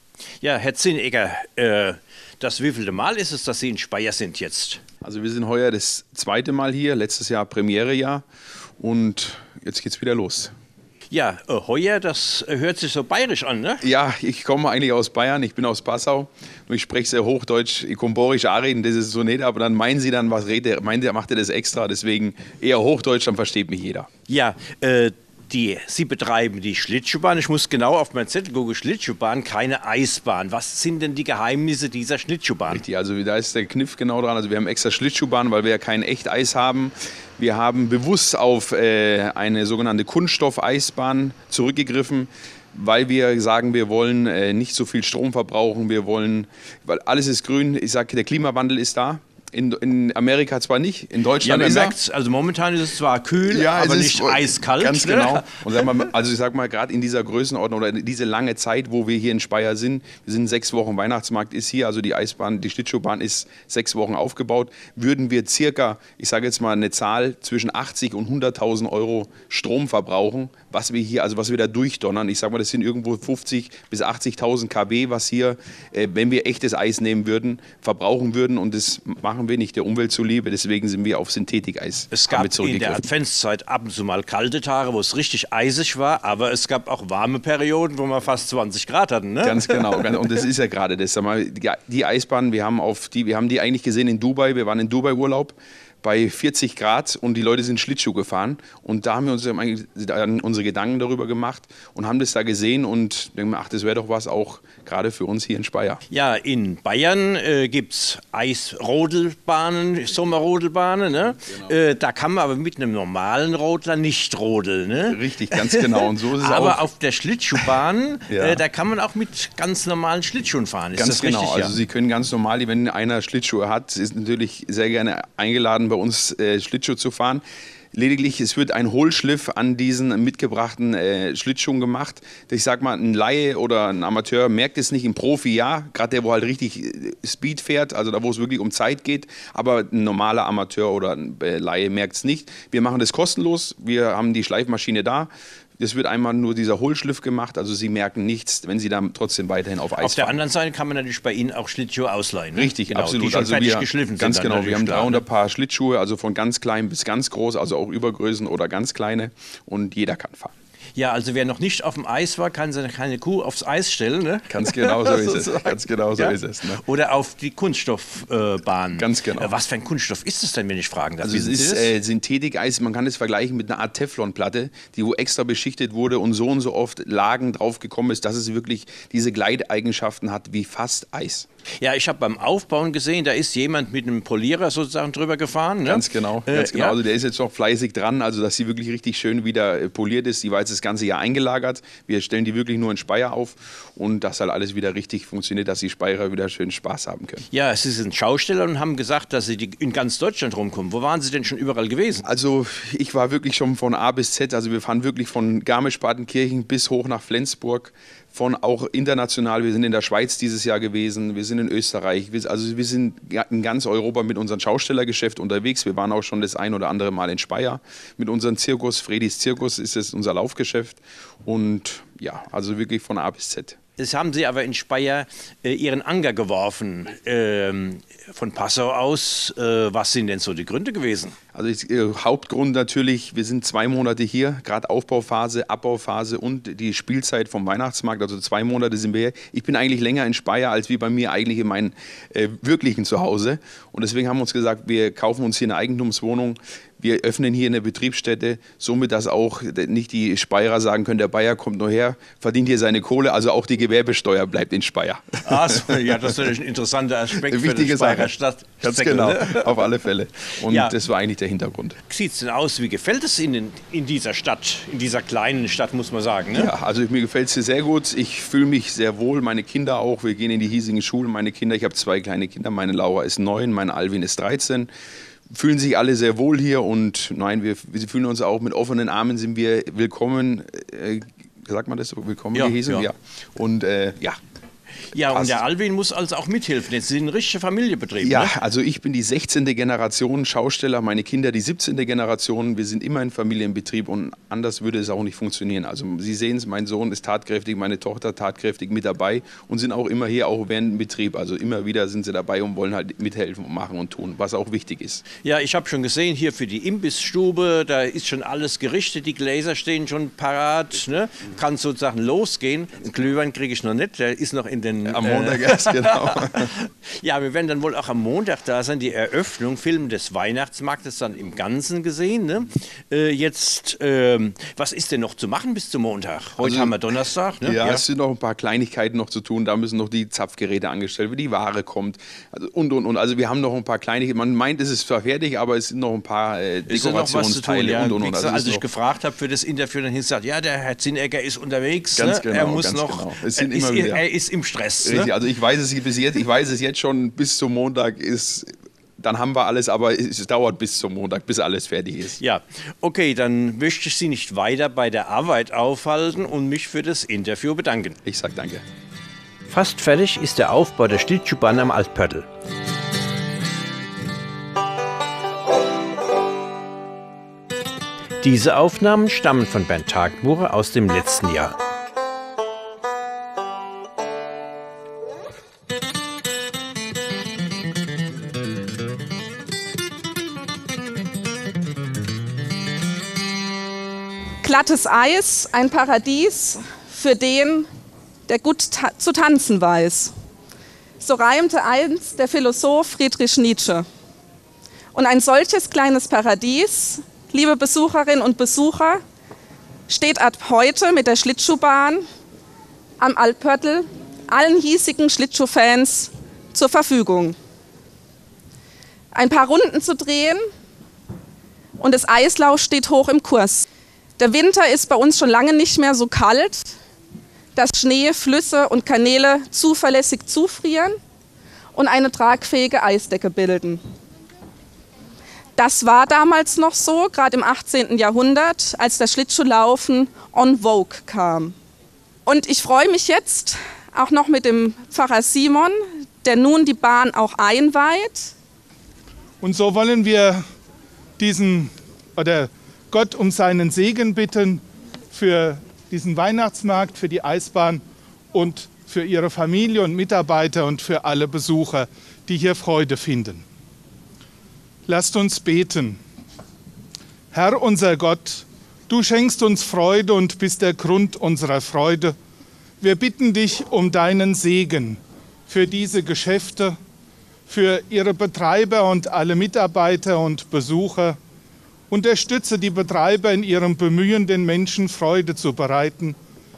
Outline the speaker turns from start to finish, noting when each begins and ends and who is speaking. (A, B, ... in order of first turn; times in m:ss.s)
0:00.4-0:04.8 A
0:05.0-0:08.2 B
0:08.8-0:10.5 B
0:11.1-0:13.8 A
0:13.8-0:24.1 B
0:24.3-0:32.8 A
0:32.7-0:52.0 B
0:51.4-0:56.0 A
0:53.4-1:23.0 B
1:22.1-1:30.1 A
1:29.4-1:46.0 B
1:46.1-2:01.7 A
1:55.1-1:56.8 B
1:58.3-1:58.6 B
2:01.0-2:30.4 B
2:30.0-2:35.2 A
2:32.5-2:40.5 B
2:41.0-2:51.9 A
2:44.5-2:46.8 B
2:49.0-2:49.6 B
2:51.2-3:01.5 B
3:01.8-3:07.0 A
3:05.8-3:17.4 B
3:17.5-3:22.2 A
3:22.2-3:43.8 B
3:44.0-3:51.4 A
3:51.5-4:16.4 B
4:15.4-4:19.7 A
4:17.4-4:22.0 B
4:20.7-4:20.9 A
4:22.1-4:26.7 A
4:26.5-4:34.9 B
4:35.5-4:44.4 B
4:42.5-4:43.0 A
4:45.1-4:48.6 A
4:45.3-4:45.6 B
4:48.2-5:05.2 B
5:05.4-5:28.0 A
5:15.1-5:16.7 B
5:26.6-5:26.9 B
5:27.6-5:38.8 B
5:36.9-5:45.3 A
5:42.2-5:44.2 B
5:45.0-5:52.4 B
5:52.4-5:58.2 A
5:58.2-5:58.8 B
5:59.7-6:02.5 A
6:08.4-6:11.8 A
6:24.6-6:27.9 C
6:28.5-6:30.3 C
6:31.2-6:34.0 C
6:35.1-6:39.2 C
6:40.1-6:42.2 C
6:43.2-6:47.6 C
6:49.3-6:50.6 C
6:52.0-6:53.8 C
6:54.4-6:56.9 C
6:57.8-7:01.2 C
7:01.9-7:04.0 C
7:05.8-7:11.7 C
7:12.4-7:18.5 C
7:19.6-7:20.6 D
7:21.4-7:28.0 D
7:28.5-7:33.6 D
7:35.0-7:36.2 D
7:37.5-7:42.3 D
7:43.0-7:47.0 D
7:47.7-7:51.4 D
7:52.1-7:56.4 D